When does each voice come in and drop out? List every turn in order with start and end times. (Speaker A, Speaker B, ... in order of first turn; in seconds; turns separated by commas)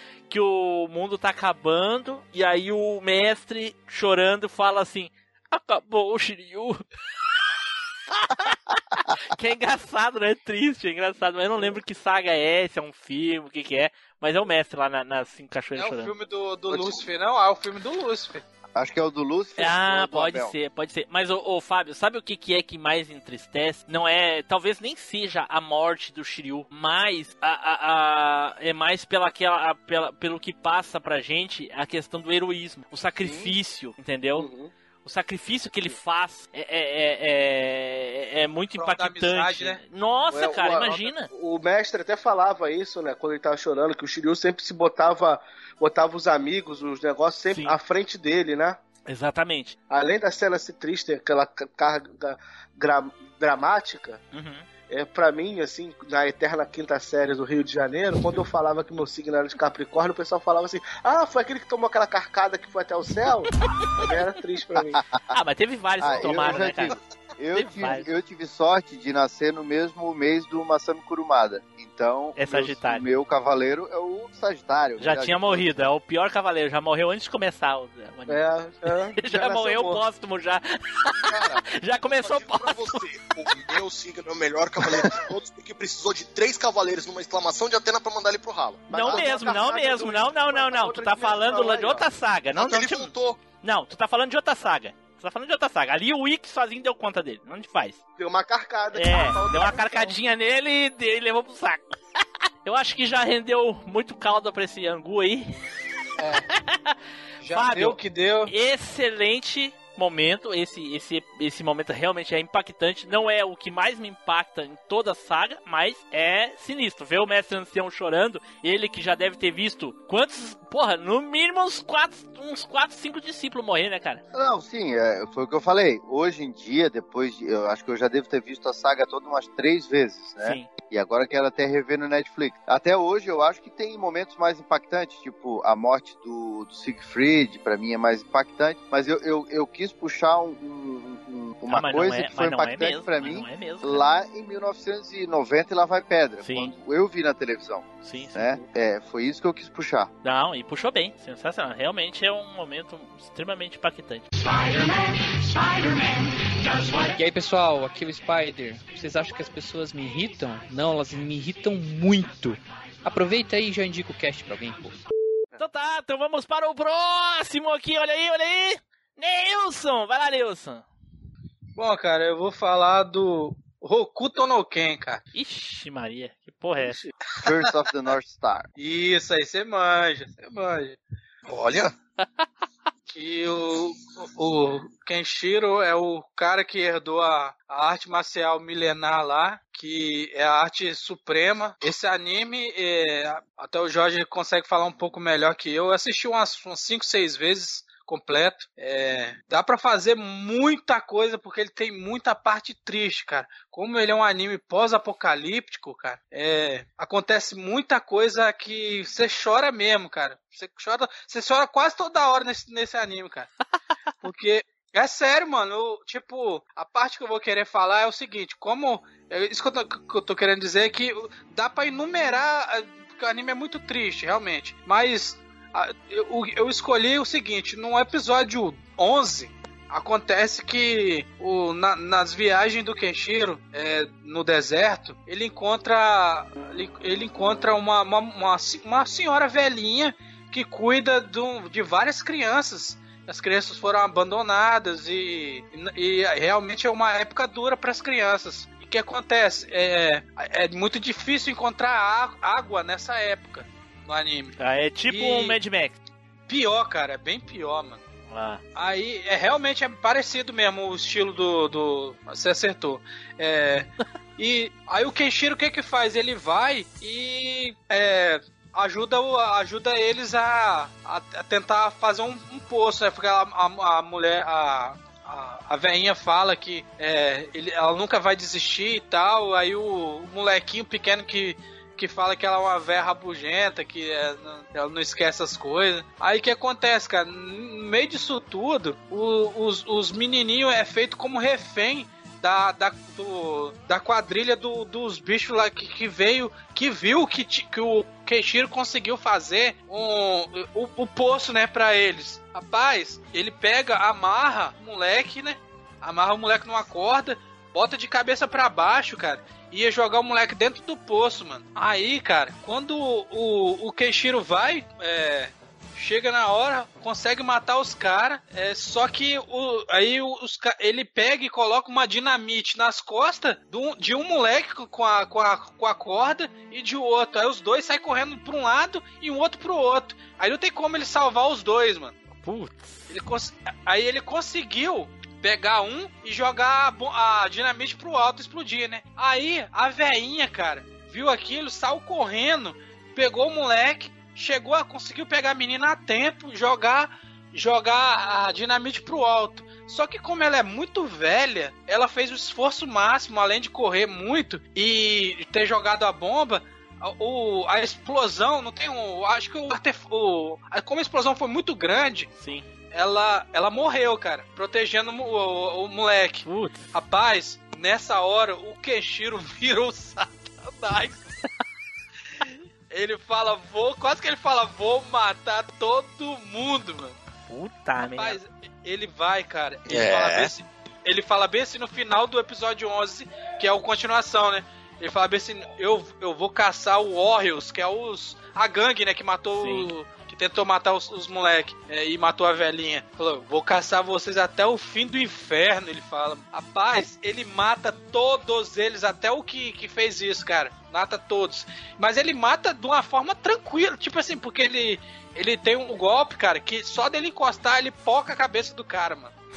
Speaker A: 0.3-6.8, Speaker A: 9.3-16.1, Speaker B: 15.8-18.4, Speaker C: 16.7-17.0, Speaker C: 18.8-20.5, Speaker A: 19.6-34.5, Speaker D: 34.4-34.7, Speaker A: 35.0-41.3, Speaker B: 38.8-39.8, Speaker D: 40.3-48.8, Speaker A: 47.5-47.8, Speaker A: 49.1-49.8, Speaker D: 49.9-54.2, Speaker A: 54.3-54.6, Speaker D: 54.9-63.5, Speaker D: 64.0-65.0, Speaker A: 65.3-67.0, Speaker C: 66.0-75.7, Speaker A: 67.5-68.1, Speaker A: 72.4-73.0, Speaker A: 75.0-81.1, Speaker D: 78.3-80.0, Speaker A: 81.7-83.0, Speaker E: 82.0-89.2, Speaker D: 88.9-92.1, Speaker A: 88.9-98.0, Speaker E: 92.6-93.4, Speaker D: 98.2-100.2, Speaker A: 98.9-101.8, Speaker A: 102.7-105.5, Speaker B: 106.2-106.4, Speaker B: 107.4-108.5, Speaker A: 107.5-124.2, Speaker C: 124.3-150.1, Speaker A: 130.4-130.7, Speaker A: 141.7-144.1, Speaker A: 146.4-146.7, Speaker A: 148.0-148.5, Speaker A: 150.2-154.2, Speaker F: 156.8-165.0, Speaker A: 165.6-170.8, Speaker B: 171.8-175.2, Speaker A: 175.3-177.0, Speaker D: 176.8-177.1, Speaker C: 177.4-178.7, Speaker B: 178.8-181.0, Speaker E: 181.5-181.9, Speaker B: 183.1-213.5, Speaker B: 214.2-254.5, Speaker A: 254.6-256.0, Speaker B: 255.1-255.6, Speaker B: 256.5-258.0, Speaker A: 258.3-258.6, Speaker B: 258.8-332.1, Speaker A: 332.4-333.1, Speaker B: 333.1-362.3, Speaker A: 362.4-362.7, Speaker B: 362.9-371.3, Speaker A: 366.4-366.9, Speaker B: 372.9-377.1, Speaker A: 377.5-378.4, Speaker B: 378.1-409.3, Speaker E: 379.9-380.5, Speaker A: 389.6-389.9